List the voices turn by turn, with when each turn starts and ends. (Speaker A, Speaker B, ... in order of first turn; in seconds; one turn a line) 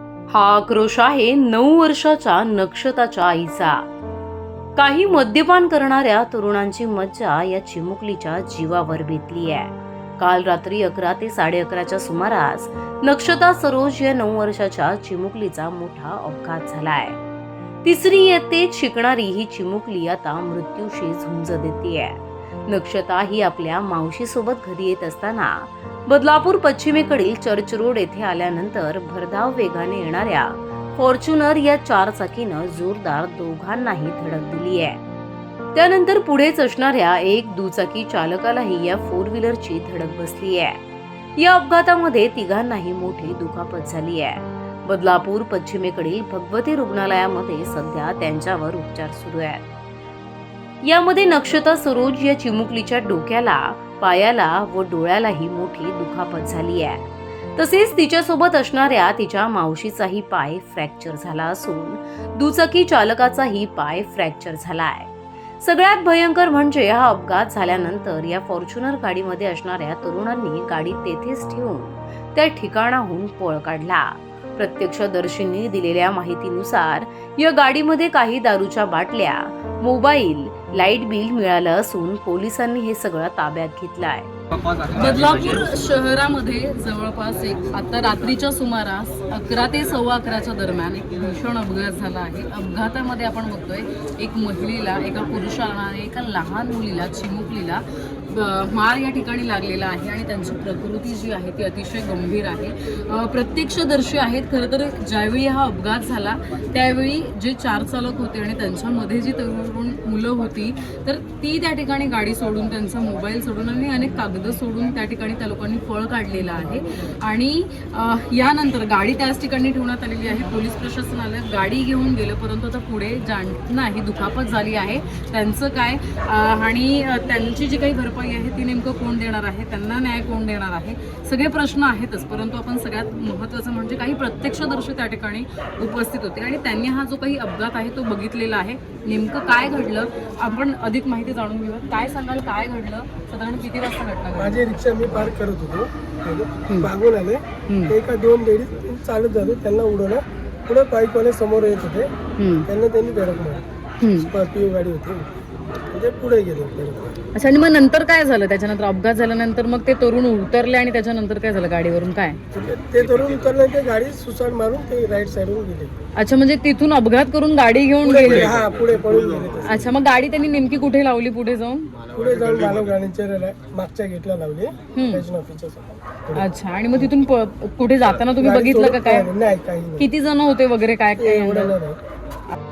Speaker A: 0.3-3.8
Speaker A: 4.8-17.2
Speaker A: 17.8-35.0
Speaker A: 35.7-40.8
Speaker A: 41.4-49.6
Speaker A: 50.8-65.1
Speaker A: 65.6-84.3
Speaker B: 84.9-144.6
Speaker C: 144.3-152.1
Speaker B: 147.7-147.9
Speaker B: 152.4-152.7
Speaker C: 152.7-153.7
Speaker B: 154.0-154.3
Speaker C: 154.2-155.3
Speaker C: 155.9-157.1
Speaker B: 157.3-162.4
Speaker C: 162.5-165.9
Speaker B: 166.2-168.6
Speaker C: 168.0-169.7
Speaker B: 169.6-171.9
Speaker C: 172.1-176.4
Speaker B: 174.9-175.2
Speaker B: 176.3-179.3
Speaker C: 178.4-180.1
Speaker B: 180.0-181.7
Speaker C: 181.2-182.0